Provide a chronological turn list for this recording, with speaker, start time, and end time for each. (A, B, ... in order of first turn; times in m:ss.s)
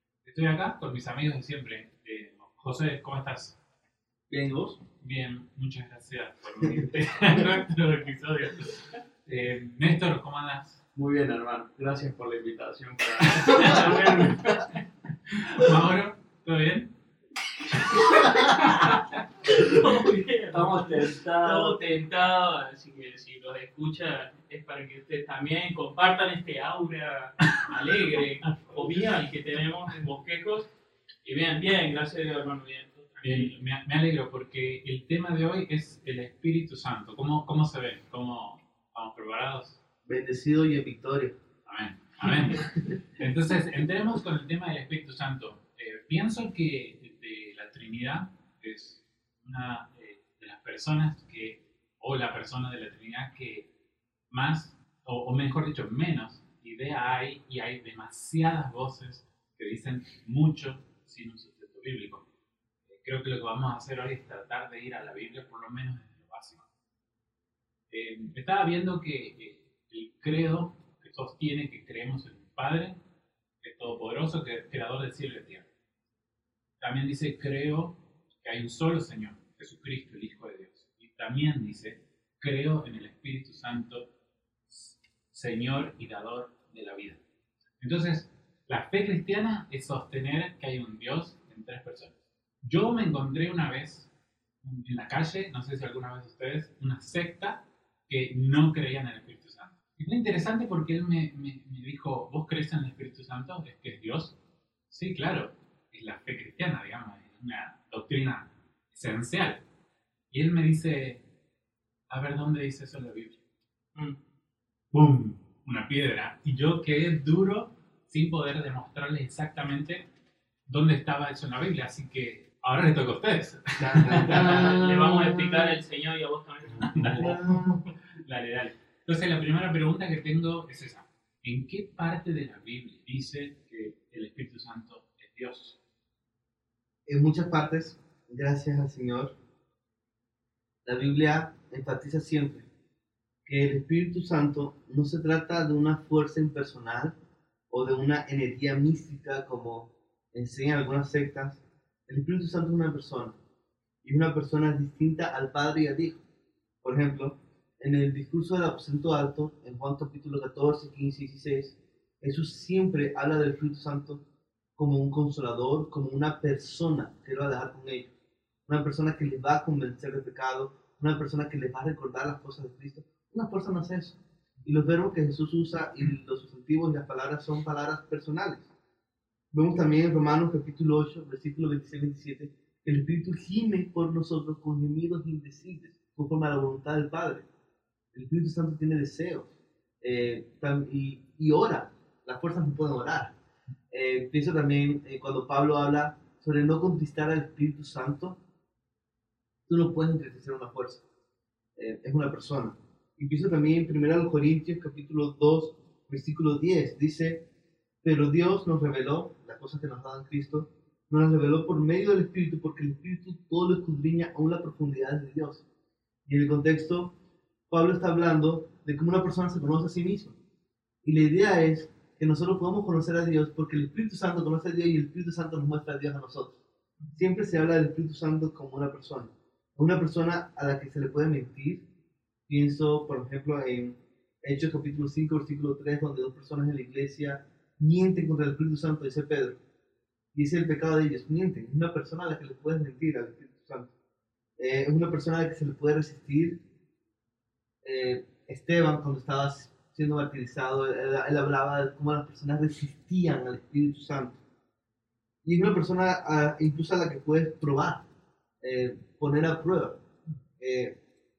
0:00.2-0:03.6 A
0:04.3-0:04.8 B
0:05.0-0:10.8 A
0:10.9-0:14.8 C
0:13.4-0:14.5 A
0:15.3-0:16.9 A
0:17.8-0:18.5 A
0:18.1-0:30.7 D
0:20.5-0:21.8 C
0:31.2-0:33.5 D
0:33.2-0:39.8 A
0:40.0-0:41.4 B
0:41.6-0:53.7 A
0:54.3-1:02.2 A
1:02.9-1:06.6 A
1:07.9-1:13.0 A
1:13.6-1:15.6 A
1:16.8-1:24.1 A
1:24.7-1:27.2 A
1:27.8-1:34.1 A
1:34.6-1:44.4 A
1:44.9-1:49.6 A
1:50.3-1:51.2 A
1:52.1-1:53.4 A
1:54.9-2:00.1 A
2:00.7-2:04.7 A
2:03.8-2:05.3 B
2:04.0-2:07.7 D
2:06.8-2:15.8 A
2:07.1-2:07.8 B
2:17.1-2:19.3 B
2:20.8-2:22.7 B
2:23.4-2:27.2 B
2:27.7-2:33.4 B
2:34.0-2:36.2 B
2:36.8-2:44.2 B
2:44.8-2:48.1 B
2:48.7-2:58.7 B
2:59.5-3:07.5 B
3:08.1-3:09.5 B
3:10.0-3:13.4 B
3:13.9-3:18.4 B
3:19.7-3:21.0 B
3:21.8-3:27.4 B
3:28.0-3:35.6 B
3:36.2-3:37.1 B
3:37.7-3:40.4 B
3:41.0-3:46.6 B
3:47.1-3:51.8 B
3:52.5-3:59.6 B
4:00.3-4:03.9 B
4:04.6-4:06.6 B
4:07.8-4:14.4 B
4:15.4-4:18.0 B
4:18.6-4:20.0 B
4:20.6-4:21.0 B